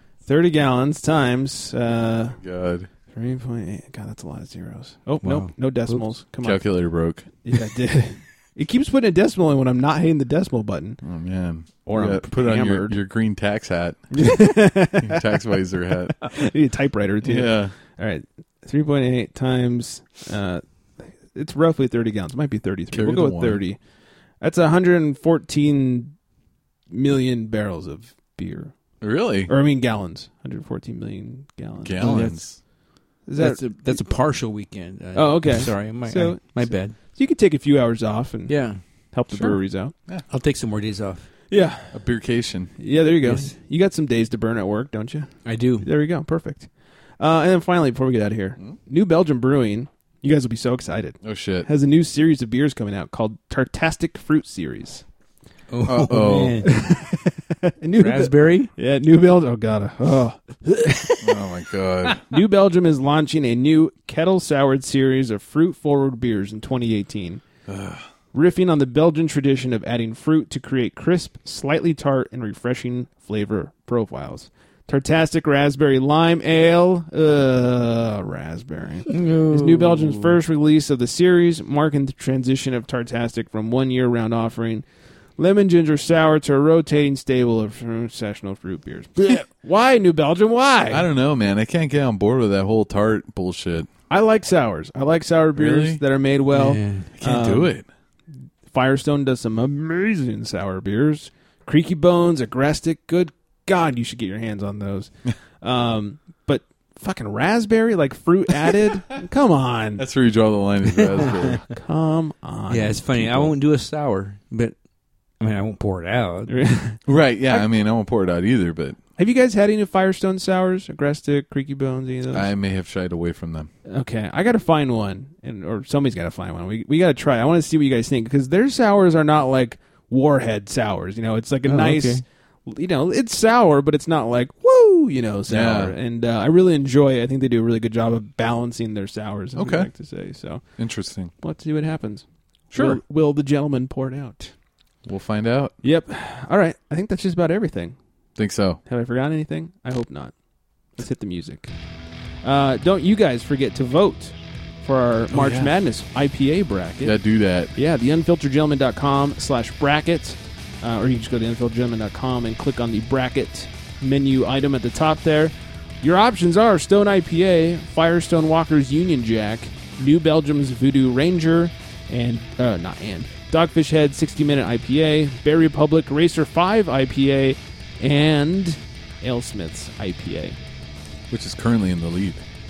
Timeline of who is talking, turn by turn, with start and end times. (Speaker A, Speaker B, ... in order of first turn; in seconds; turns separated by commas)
Speaker A: 0.2-2.4, Speaker B: 2.4-2.9, Speaker A: 3.1-6.6, Speaker C: 5.2-6.0, Speaker B: 6.4-7.3, Speaker A: 7.4-11.0, Speaker B: 11.0-16.4, Speaker A: 11.8-12.9, Speaker A: 14.1-15.3, Speaker A: 16.2-23.8, Speaker B: 17.2-17.7, Speaker B: 22.9-23.6, Speaker A: 24.4-26.1, Speaker A: 26.9-28.7, Speaker B: 29.0-29.5, Speaker A: 29.5-32.4, Speaker B: 31.8-32.6, Speaker C: 32.0-32.4, Speaker A: 33.2-34.0, Speaker C: 33.4-37.0, Speaker A: 35.1-38.6, Speaker C: 38.5-38.8, Speaker A: 39.1-39.9, Speaker C: 40.3-41.3, Speaker A: 41.5-42.0, Speaker B: 41.9-42.7, Speaker A: 42.8-46.7, Speaker C: 43.2-43.5, Speaker C: 45.4-45.9, Speaker A: 47.2-55.0, Speaker B: 51.2-51.7, Speaker C: 55.7-56.7, Speaker B: 55.9-56.6, Speaker A: 56.6-61.1, Speaker C: 58.0-58.7, Speaker C: 60.8-61.2, Speaker B: 61.2-62.2, Speaker A: 62.3-67.4, Speaker B: 67.7-68.0, Speaker A: 68.3-84.8, Speaker C: 79.1-80.4, Speaker A: 85.4-91.0, Speaker B: 90.9-93.9, Speaker A: 94.1-97.7, Speaker B: 95.5-96.0, Speaker C: 96.5-97.1, Speaker B: 97.2-97.8, Speaker A: 98.7-110.0, Speaker B: 110.0-111.6, Speaker A: 111.2-113.5, Speaker C: 112.7-114.7, Speaker C: 115.4-116.5, Speaker A: 116.5-117.6, Speaker B: 117.1-119.0, Speaker A: 119.2-122.5, Speaker B: 122.3-123.7, Speaker A: 123.9-140.6, Speaker C: 131.7-132.2, Speaker B: 135.5-135.9, Speaker B: 139.5-139.9, Speaker B: 140.8-141.3, Speaker A: 141.4-144.5, Speaker B: 142.7-143.0, Speaker B: 145.0-145.8, Speaker A: 145.8-148.0, Speaker B: 148.4-148.8, Speaker A: 148.8-150.3, Speaker A: 151.0-151.7, Speaker A: 152.4-157.2, Speaker B: 155.3-155.7, Speaker B: 157.0-157.7, Speaker A: 157.7-180.6, Speaker B: 181.3-182.4